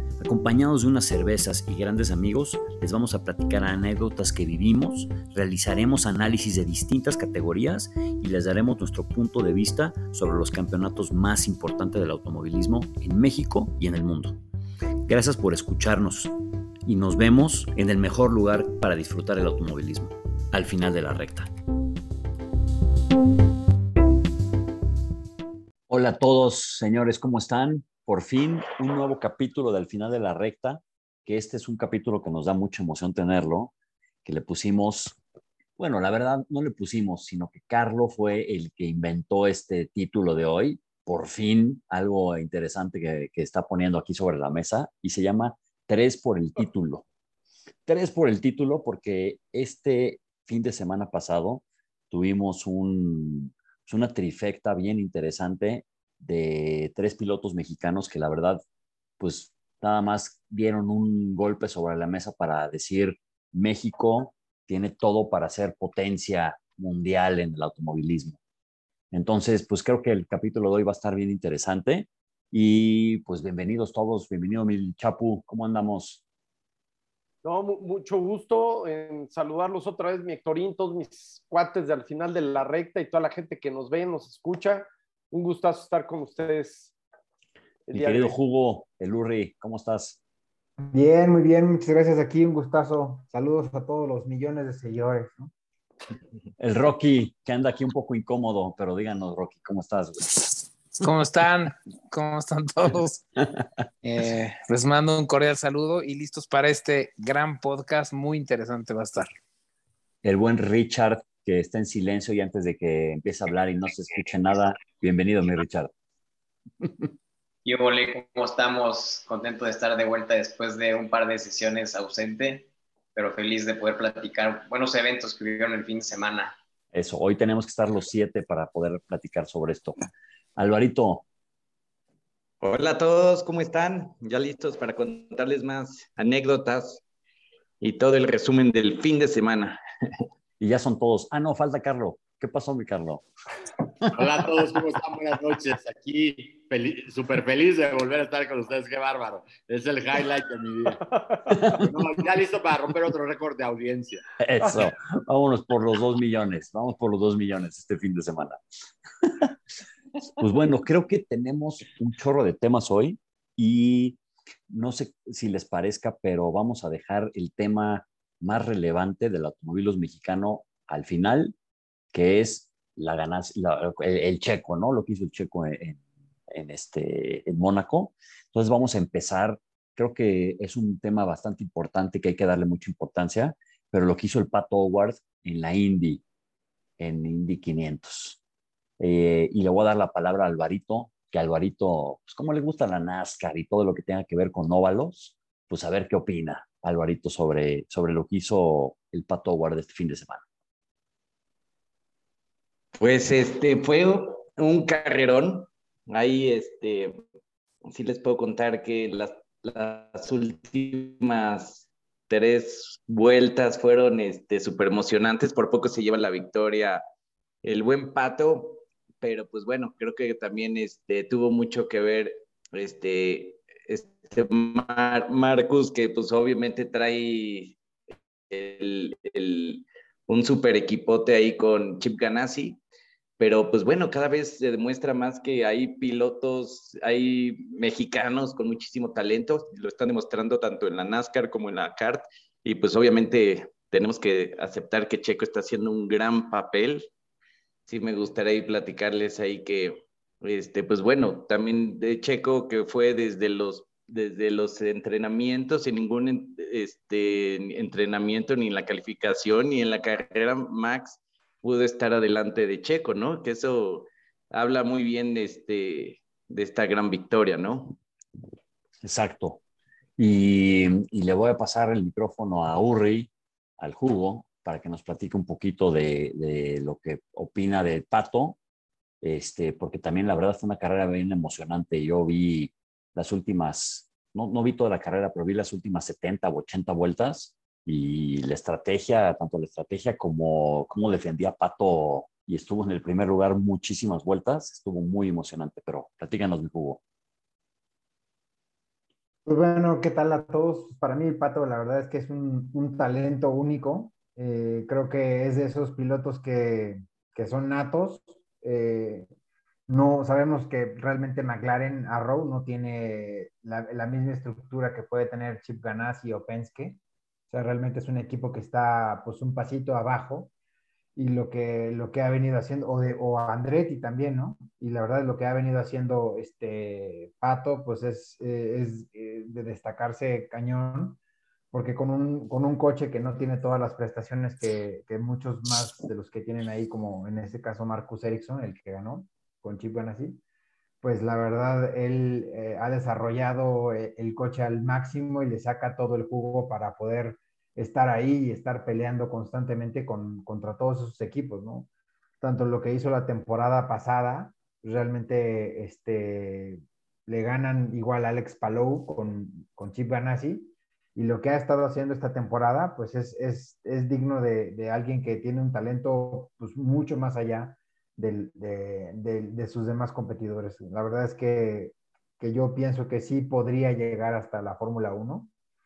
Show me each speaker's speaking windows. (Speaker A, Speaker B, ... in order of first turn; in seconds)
Speaker A: 0.2-14.4, 15.1-16.3, 16.9-21.5, 25.9-33.7, 34.2-35.2, 35.8-47.0, 47.9-58.6, 59.2-68.4, 69.1-76.2, 87.9-90.2, 96.6-100.3, 110.2-115.9, 126.9-130.0, 130.6-131.2, 140.6-143.2, 151.5-151.9, 154.4-158.6, 159.2-159.5, 160.4-171.6, 172.1-186.2, 187.0-188.4, 189.0-200.4, 269.0-269.6, 270.2-278.6, 279.2-297.0
Speaker B: 77.4-86.9, 87.9-88.3
Speaker C: 90.9-95.5, 299.5-309.3, 309.9-317.0, 317.5-320.5, 321.2-331.2, 331.7-340.4, 341.0-351.9, 352.4-375.5
Speaker D: 101.0-103.2, 104.0-109.3
Speaker E: 117.7-126.6
Speaker F: 132.6-137.0, 137.8-139.8, 203.0-207.2, 207.9-217.0, 217.6-227.8, 228.5-232.8, 233.4-247.1, 247.9-268.0
Speaker G: 144.1-154.2